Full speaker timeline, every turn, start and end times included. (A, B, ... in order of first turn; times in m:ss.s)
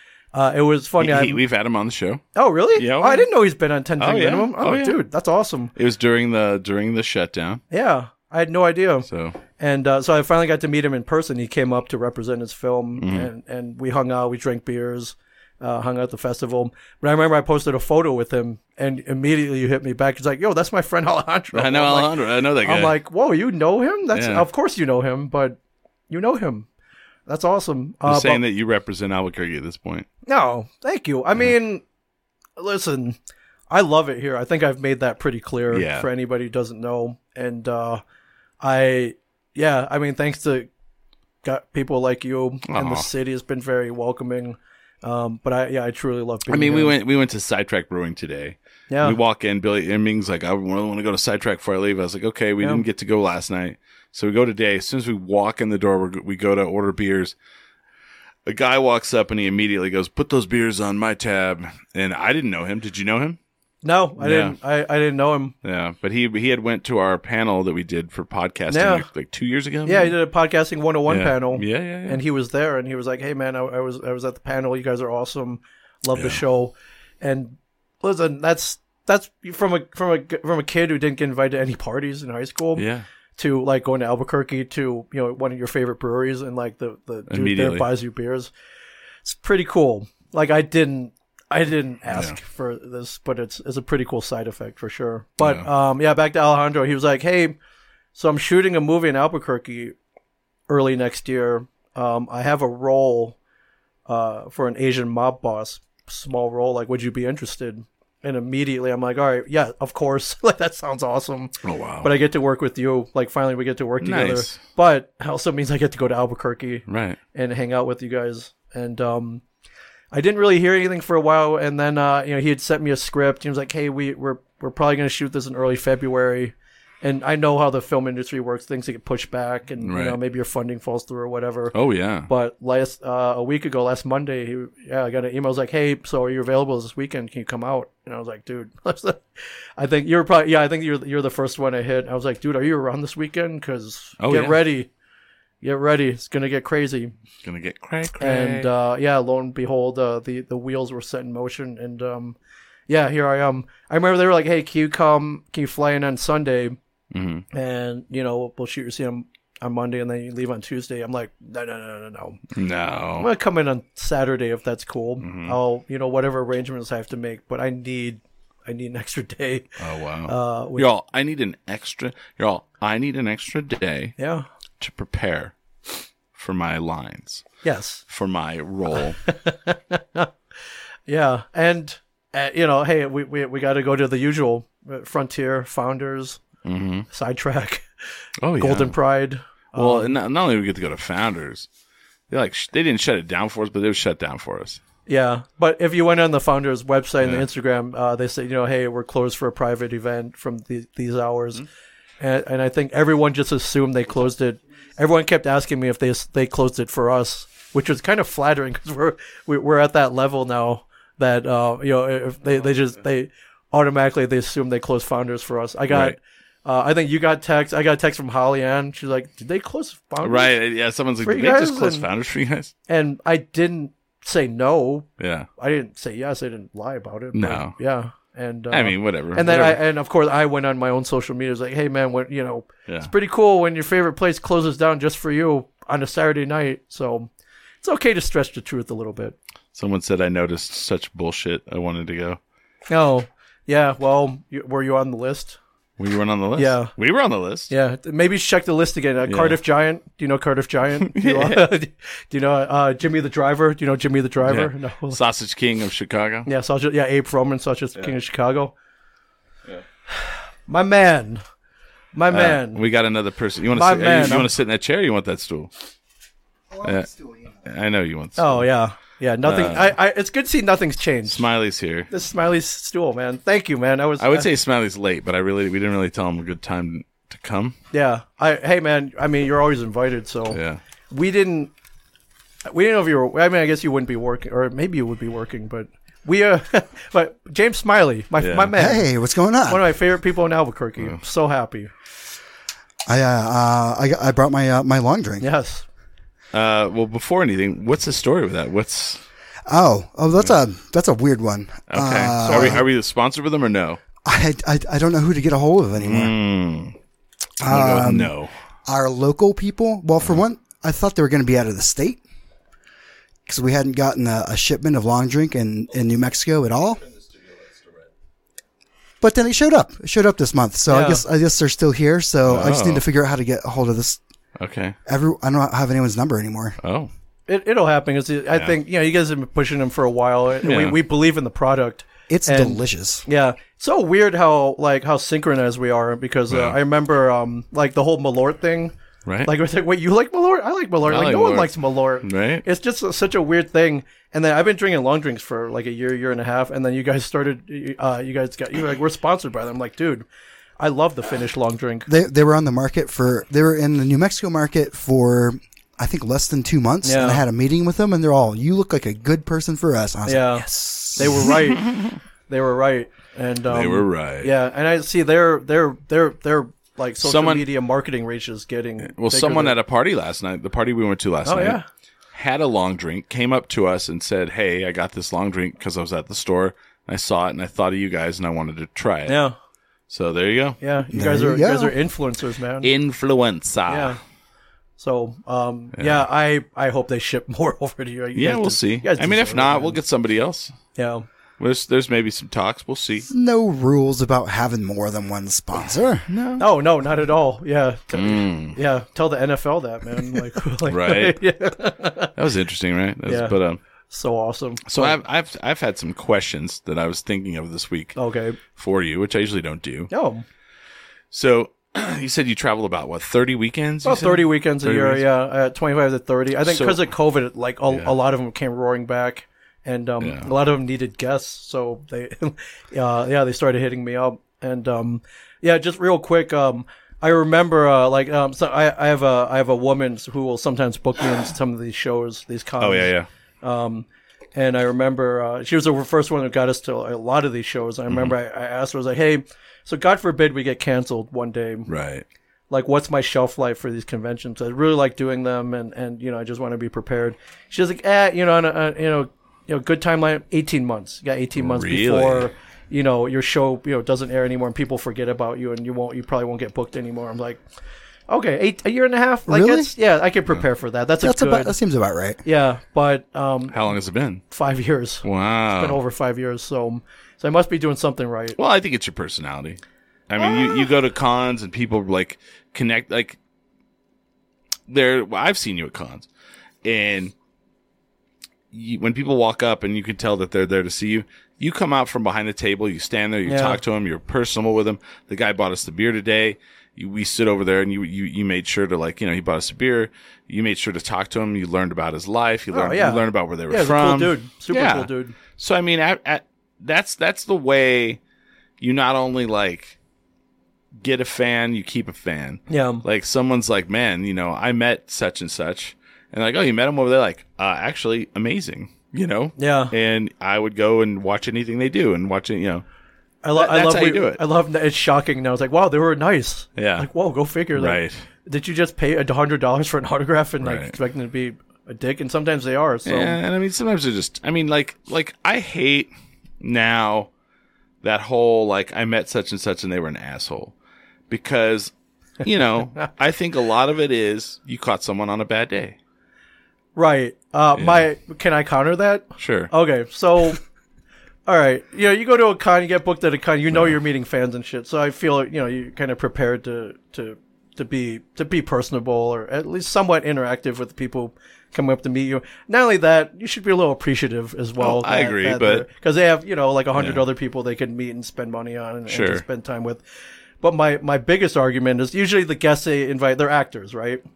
0:00.3-0:01.4 A
0:01.0-0:02.2 B
0:02.4-0:05.7 A
0:02.8-0:03.3 B
0:04.0-0:05.0 B
0:05.8-0:07.6 B
0:07.7-0:09.1 A
0:09.1-0:09.4 B
0:09.6-0:25.6 A
0:13.0-0:13.3 B
0:21.5-0:23.0 B
0:24.1-0:24.5 B
0:26.1-0:26.7 A
0:27.3-0:28.4 A
0:28.0-0:30.1 B
0:30.3-0:31.8 A
0:32.6-0:33.2 A
0:33.7-0:38.0 A
0:35.7-0:36.1 B
0:38.6-0:40.7 A
0:41.4-0:47.0 A
0:42.7-0:43.1 B
0:46.5-0:57.4 B
0:48.9-0:49.2 A
0:58.5-1:03.4 B
1:03.8-1:05.6 A
1:04.2-1:04.6 B
1:05.6-1:10.2 B
1:08.7-1:09.1 A
1:09.8-1:22.8 A
1:11.1-1:12.2 B
1:16.1-1:16.4 B
1:22.8-1:23.0 B
1:23.4-1:28.5 A
1:27.3-1:27.9 B
1:29.2-1:37.6 A
1:32.1-1:32.4 B
1:35.4-1:35.7 B
1:38.2-1:40.0 A
1:40.7-1:43.4 A
1:44.1-1:59.4 A
1:51.6-1:52.1 B
1:54.0-1:54.6 B
1:56.9-1:57.2 B
2:00.1-2:11.8 A
2:09.8-2:10.2 B
2:11.7-2:12.3 B
2:12.3-2:24.9 A
2:24.2-2:24.6 B
2:25.6-2:27.1 A
2:27.4-2:28.7 B
2:28.2-2:32.4 A
2:32.9-2:36.8 A
2:37.1-2:37.4 B
2:37.5-2:42.4 A
2:42.5-2:43.3 B
2:43.2-2:49.8 A
2:45.2-2:45.6 B
2:49.8-2:54.2 B
2:50.3-2:50.9 A
2:54.2-2:54.5 A
2:54.8-2:55.5 B
2:56.3-2:57.4 B
2:57.6-2:58.0 A
2:58.1-2:59.2 B
2:59.2-3:00.3 A
3:01.1-3:06.4 A
3:06.6-3:07.1 B
3:07.1-3:07.9 A
3:08.4-3:09.0 B
3:08.6-3:10.1 A
3:09.8-3:11.7 B
3:12.3-3:14.8 B
3:15.1-3:21.6 A
3:22.2-3:40.6 A
3:35.9-3:36.2 B
3:40.2-3:42.7 B
3:41.2-3:42.1 A
3:42.9-3:45.1 A
3:45.2-3:45.5 B
3:45.6-3:57.3 A
3:47.3-3:47.8 B
3:48.7-3:49.8 B
3:57.8-3:59.4 A
3:59.8-4:02.4 B
4:02.9-4:05.6 A
4:06.0-4:07.7 B
4:06.6-4:06.9 A
4:07.7-4:15.2 A
4:09.3-4:09.6 B
4:11.0-4:11.7 B
4:14.4-4:16.5 B
4:16.5-4:18.7 A
4:20.7-4:21.4 A
4:22.1-4:22.8 A
4:22.3-4:25.7 B
4:23.7-4:24.5 A
4:26.7-4:27.5 C
4:26.8-4:27.1 B
4:27.6-4:28.7 B
4:28.4-4:31.4 A
4:29.4-4:30.0 B
4:31.3-4:32.1 B
4:32.1-4:34.5 A
4:34.2-4:37.8 B
4:37.9-4:40.6 A
4:40.5-4:40.8 B
4:41.1-4:41.7 A
4:42.7-4:49.1 A
4:48.4-4:48.7 B
4:48.8-4:49.8 C
4:49.7-4:51.9 A
4:53.1-4:55.5 C
4:55.4-4:55.8 A
4:56.5-4:59.2 B
4:59.7-5:02.9 C
5:01.9-5:04.0 B
5:04.2-5:06.4 C
5:06.0-5:07.0 B
5:07.6-5:08.3 C
5:07.6-5:08.5 B
5:08.9-5:12.2 C
5:13.5-5:17.1 C
5:19.2-5:24.2 C
5:20.9-5:21.2 A
5:22.5-5:23.0 B
5:24.6-5:25.0 B
5:25.1-5:26.8 C
5:26.8-5:27.1 B
5:27.5-5:50.3 A
5:30.6-5:31.0 B
5:32.3-5:33.2 C
5:36.5-5:36.8 B
5:39.3-5:39.5 B
5:41.1-5:42.6 B
5:50.8-5:52.1 A
5:52.1-6:01.7 C
5:57.0-5:57.4 A
6:00.3-6:09.8 A
6:01.4-6:02.0 B
6:03.7-6:04.5 B
6:07.2-6:07.6 B
6:09.1-6:11.8 B
6:11.4-6:11.9 A
6:12.3-6:19.4 B
6:19.3-6:19.6 A
6:20.1-6:20.8 B
6:20.8-6:22.9 A
6:21.1-6:22.0 C
6:22.8-6:24.2 B
6:23.9-6:24.2 A
6:25.0-6:30.0 A
6:26.0-6:26.2 B
6:28.4-6:30.8 B
6:31.0-6:31.3 A
6:31.6-6:33.3 B
6:33.3-6:36.3 C
6:36.3-6:36.7 B
6:36.6-6:42.3 A
6:38.1-6:38.8 B
6:40.9-6:41.4 B
6:42.4-6:43.8 B
6:43.3-6:43.6 A
6:44.1-6:45.2 A
6:44.9-6:48.2 B
6:48.2-6:48.6 A
6:48.7-6:50.1 B
6:50.1-6:50.4 A
6:51.3-6:55.2 B
6:54.0-7:13.1 A
6:56.6-6:57.0 B
7:00.2-7:00.5 B
7:12.8-7:13.3 B
7:13.6-7:21.9 A
7:18.1-7:18.3 B
7:21.9-7:22.2 B
7:22.7-7:37.6 A
7:31.6-7:32.5 B
7:38.3-7:41.7 A
7:39.5-7:39.9 C
7:41.2-7:42.4 C
7:42.4-7:43.8 A
7:43.7-7:44.4 B
7:44.5-7:48.6 A
7:45.2-7:46.0 B
7:48.6-7:53.4 B
7:54.9-7:56.3 B
7:56.8-7:57.3 B
7:58.7-8:18.2 B
8:03.5-8:03.8 A
8:12.7-8:15.4 A
8:18.8-8:20.0 B
8:21.0-8:32.8 B
8:22.7-8:23.0 A
8:29.6-8:29.9 A
8:33.4-8:43.4 A
8:33.6-8:34.4 B
8:36.8-8:37.1 B
8:37.8-8:38.2 B
8:40.6-8:41.0 B
8:43.1-8:47.3 B
8:48.0-8:50.7 B
8:51.3-8:56.0 B
8:57.0-9:00.6 A
8:57.8-8:58.0 B
8:59.4-8:59.7 B
9:01.5-9:20.0 A
9:14.8-9:15.9 B
9:17.0-9:17.2 B
9:19.1-9:19.4 B
9:20.6-9:24.2 A